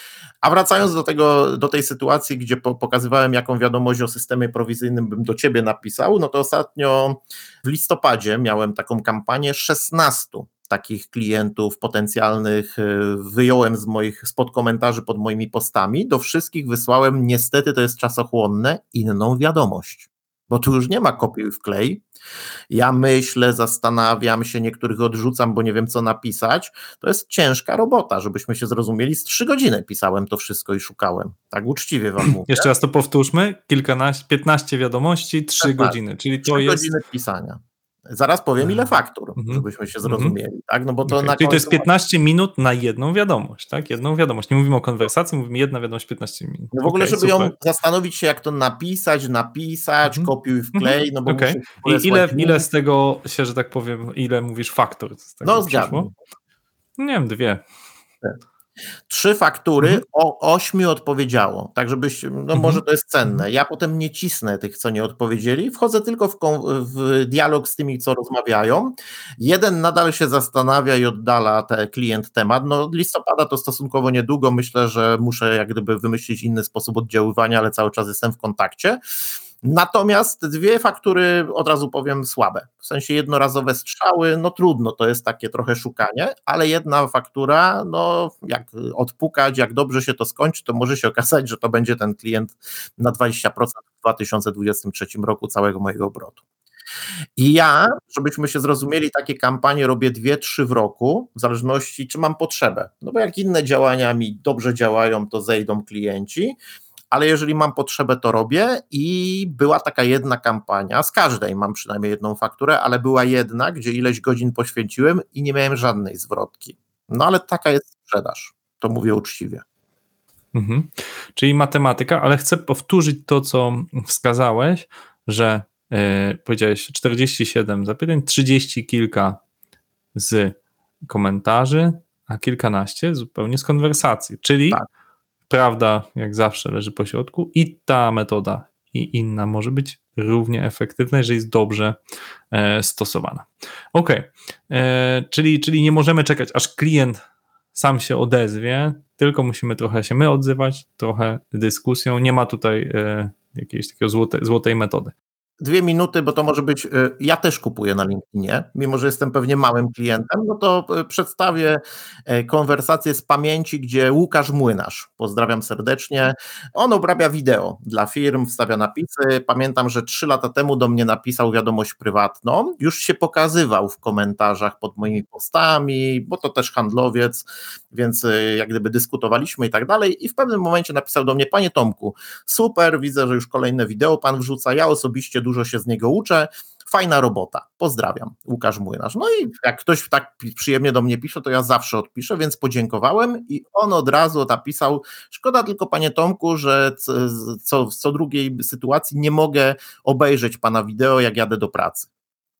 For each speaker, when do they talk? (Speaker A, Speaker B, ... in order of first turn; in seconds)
Speaker A: 0.4-22.0, 22.7-32.7, 35.6-41.9, 46.7-52.6, 55.4-56.1, 59.1-79.0, 79.6-96.4, 97.4-106.6, 107.1-119.6, 155.6-202.1
Speaker B: 32.2-36.9, 39.4-40.3, 41.0-47.5, 50.0-56.1, 57.0-57.6, 62.5-63.4, 120.5-129.4, 130.1-130.6, 131.1-134.8, 135.5-141.9, 142.5-147.2, 147.7-155.1